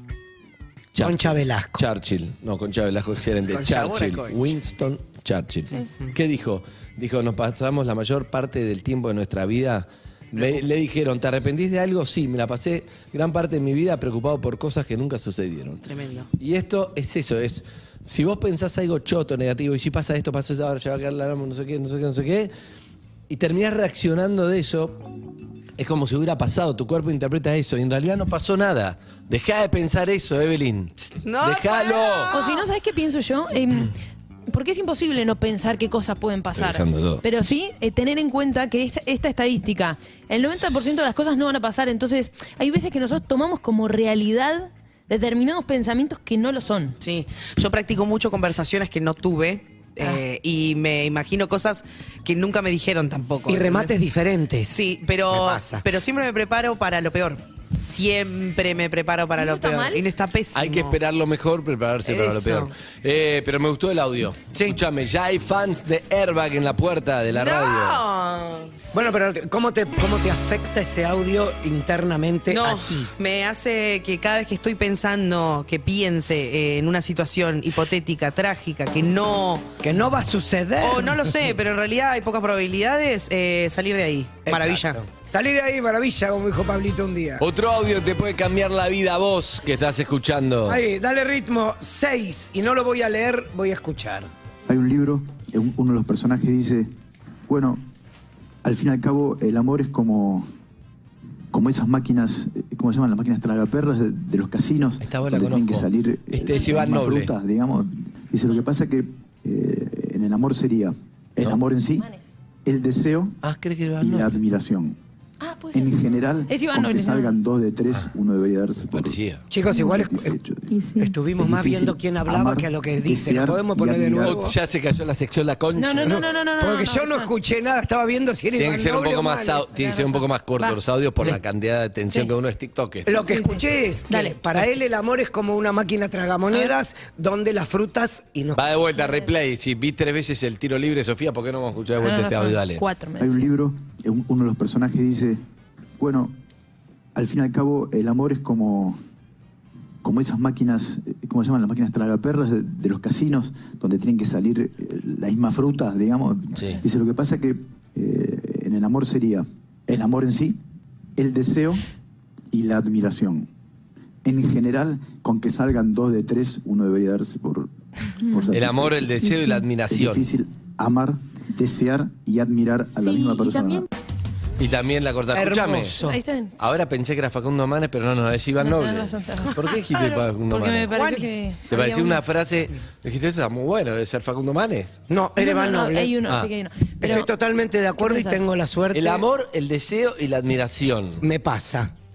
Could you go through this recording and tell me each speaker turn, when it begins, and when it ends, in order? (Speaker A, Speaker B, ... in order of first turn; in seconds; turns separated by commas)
Speaker A: 0.9-22.5, Speaker B: 1.0-1.8, Speaker C: 3.5-4.4, Speaker C: 15.8-16.3, Speaker A: 23.3-25.0, Speaker A: 25.8-32.4, Speaker C: 31.1-32.6, Speaker D: 32.3-33.9, Speaker D: 34.5-47.0, Speaker A: 36.6-37.2, Speaker C: 47.0-53.9, Speaker B: 53.5-55.8, Speaker C: 54.7-61.0, Speaker D: 59.4-60.0, Speaker A: 60.5-68.0, Speaker C: 62.0-62.7, Speaker B: 64.5-64.8, Speaker C: 67.3-69.2, Speaker B: 68.9-73.1, Speaker C: 72.5-79.7, Speaker B: 79.8-81.3, Speaker C: 80.8-85.0, Speaker B: 84.4-87.4, Speaker A: 87.4-90.8, Speaker B: 90.7-94.3, Speaker E: 94.7-96.9, Speaker E: 97.5-97.8, Speaker E: 98.6-100.5, Speaker E: 101.5-112.1, Speaker A: 105.0-107.3, Speaker D: 106.4-106.8, Speaker D: 112.0-112.3, Speaker E: 112.7-113.4, Speaker A: 113.4-114.4, Speaker E: 114.0-115.0, Speaker D: 115.4-117.4, Speaker E: 115.7-119.2, Speaker A: 118.9-119.4, Speaker B: 119.5-120.3, Speaker E: 119.7-124.4, Speaker D: 120.7-121.1, Speaker B: 121.0-124.5, Speaker A: 124.2-126.2, Speaker D: 125.8-127.3, Speaker B: 126.0-129.7, Speaker A: 128.6-133.3, Speaker D: 129.7-130.8, Speaker B: 133.1-138.8, Speaker D: 133.1-134.4, Speaker A: 138.6-142.8, Speaker D: 138.9-139.3, Speaker D: 142.0-143.5, Speaker E: 143.2-145.4, Speaker E: 146.0-146.3, Speaker E: 147.2-149.0, Speaker E: 150.0-160.6, Speaker A: 156.6-156.8, Speaker E: 161.2-161.8, Speaker E: 162.5-163.5, Speaker E: 164.2-173.9, Speaker A: 168.5-170.3, Speaker A: 174.6-176.0, Speaker B: 175.3-176.2, Speaker D: 176.0-176.6, Speaker A: 176.6-181.0, Speaker D: 178.6-182.2, Speaker C: 180.9-181.5, Speaker A: 181.7-185.0, Speaker B: 185.1-186.2, Speaker D: 185.4-187.3, Speaker A: 186.2-186.5, Speaker B: 187.0-189.3, Speaker D: 188.0-188.5, Speaker A: 188.9-191.2, Speaker B: 191.2-191.9